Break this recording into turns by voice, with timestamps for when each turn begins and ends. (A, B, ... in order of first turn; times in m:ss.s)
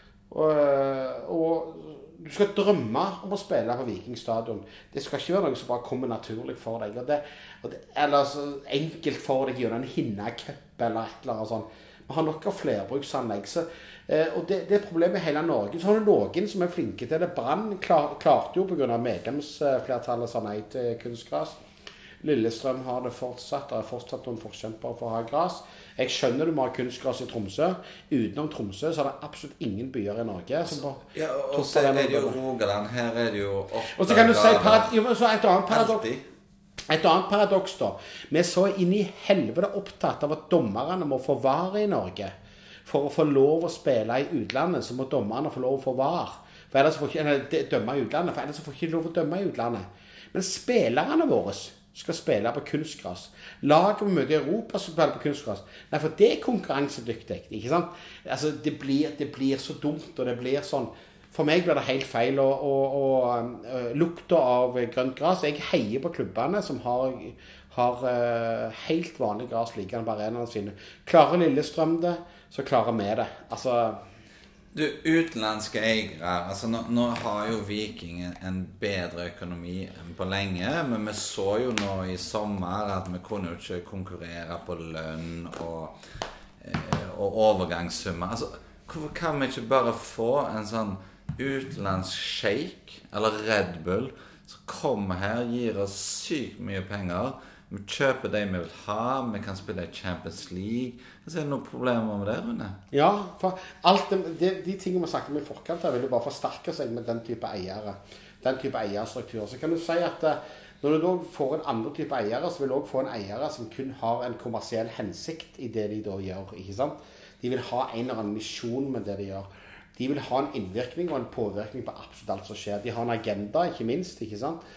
0:00.3-0:21.6 A
0:22.2-0:32.4 A
0:31.0-0:34.9 B
0:33.9-0:36.0 A
0:35.7-0:36.2 B
0:36.9-0:42.3 A
0:42.8-1:14.0 A
1:14.7-1:26.0 B
1:26.6-1:42.8 B
1:42.9-2:04.6 A